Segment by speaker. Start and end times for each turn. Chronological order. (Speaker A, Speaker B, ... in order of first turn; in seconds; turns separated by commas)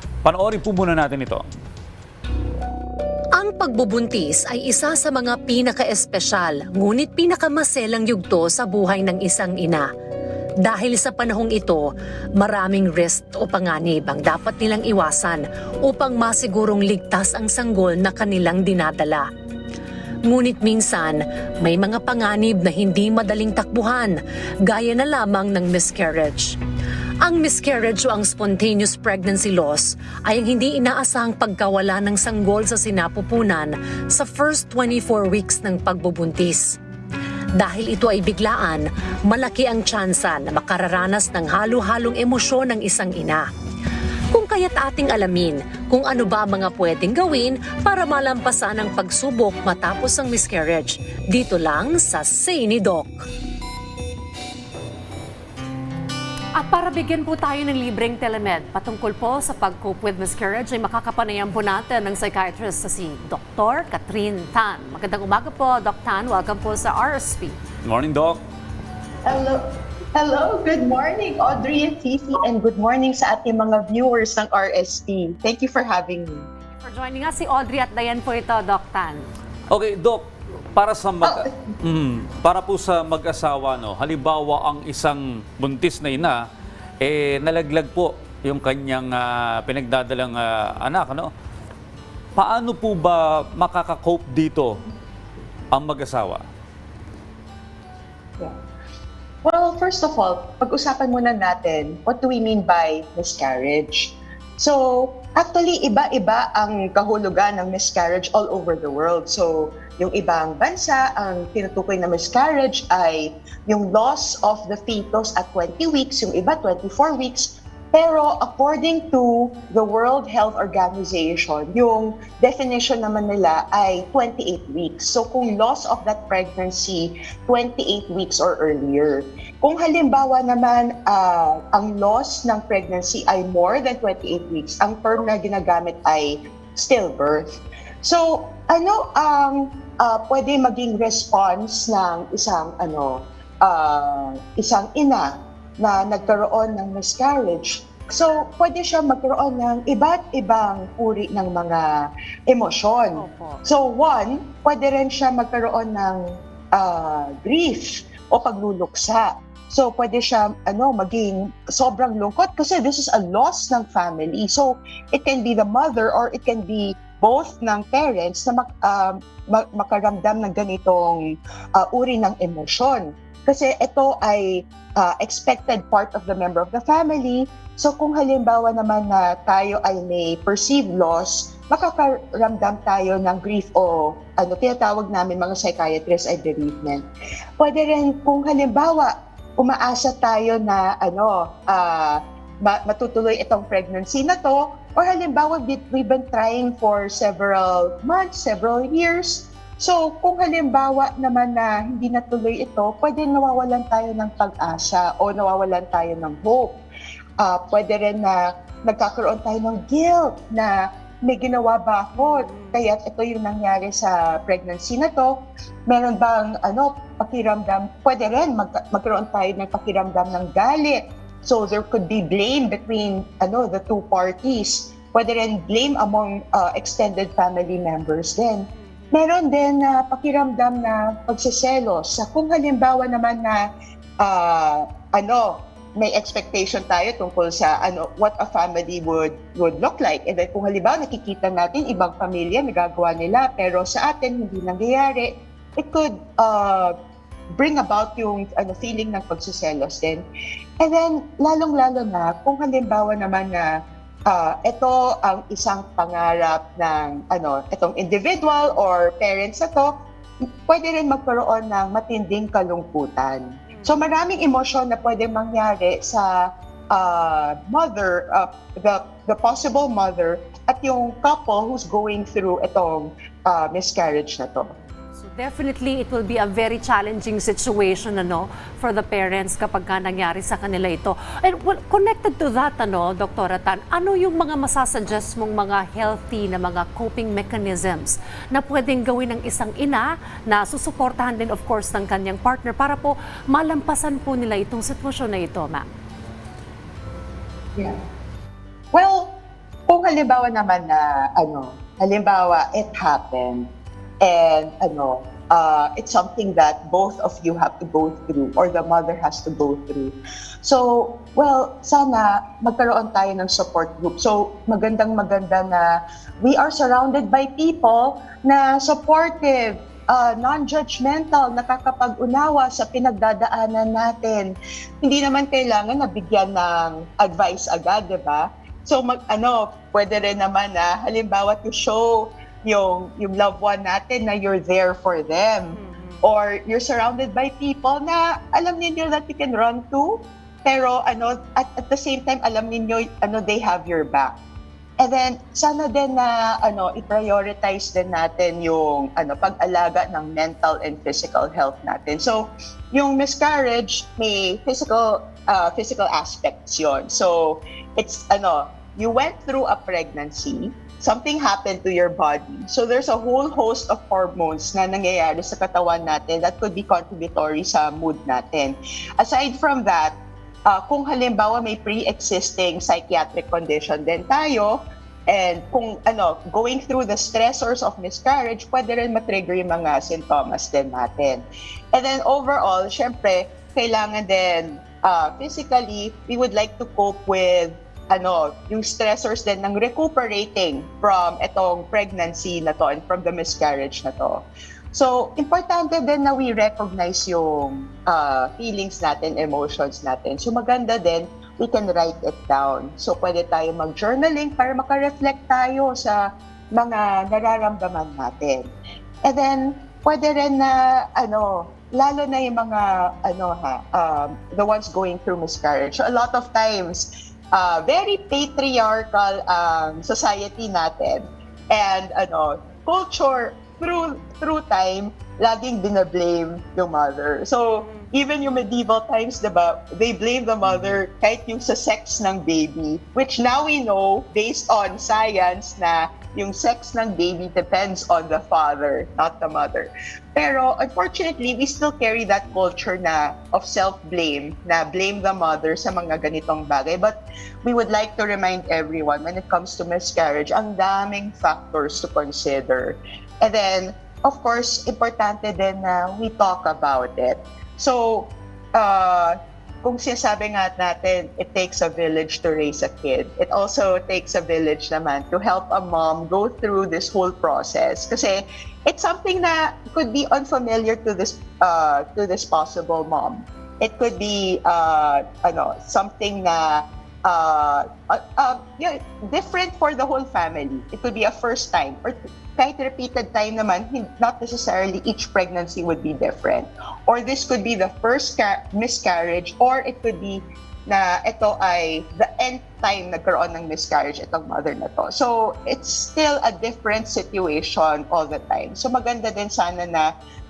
Speaker A: 0.2-1.4, Speaker B: 3.4-9.9, Speaker B: 10.6-19.3, Speaker B: 20.3-26.6, Speaker B: 27.2-36.8, Speaker B: 37.6-43.5, Speaker B: 44.3-53.3, Speaker C: 56.6-67.6, Speaker A: 67.8-68.4, Speaker D: 69.2-69.6, Speaker D: 70.2-76.5, Speaker C: 76.8-79.3, Speaker A: 79.7-80.2, Speaker A: 80.8-86.4, Speaker D: 81.2-81.5, Speaker A: 87.0-91.3, Speaker A: 92.4-94.8, Speaker A: 95.7-96.4, Speaker D: 99.4-151.8, Speaker C: 146.2-146.5, Speaker D: 152.5-156.2, Speaker C: 153.2-153.6, Speaker D: 156.7-187.1, Speaker D: 187.6-206.8, Speaker D: 207.4-233.6, Speaker D: 234.2-246.9, Speaker D: 247.5-250.2, Speaker D: 250.8-253.7, Speaker D: 254.3-259.9, Speaker D: 260.7-274.7, Speaker C: 275.2-295.9, Speaker D: 298.9-299.4, Speaker D: 299.9-303.7, Speaker D: 304.2-344.3, Speaker C: 335.8-336.2, Speaker D: 345.0-370.2, Speaker D: 370.7-408.7, Speaker D: 409.2-500.1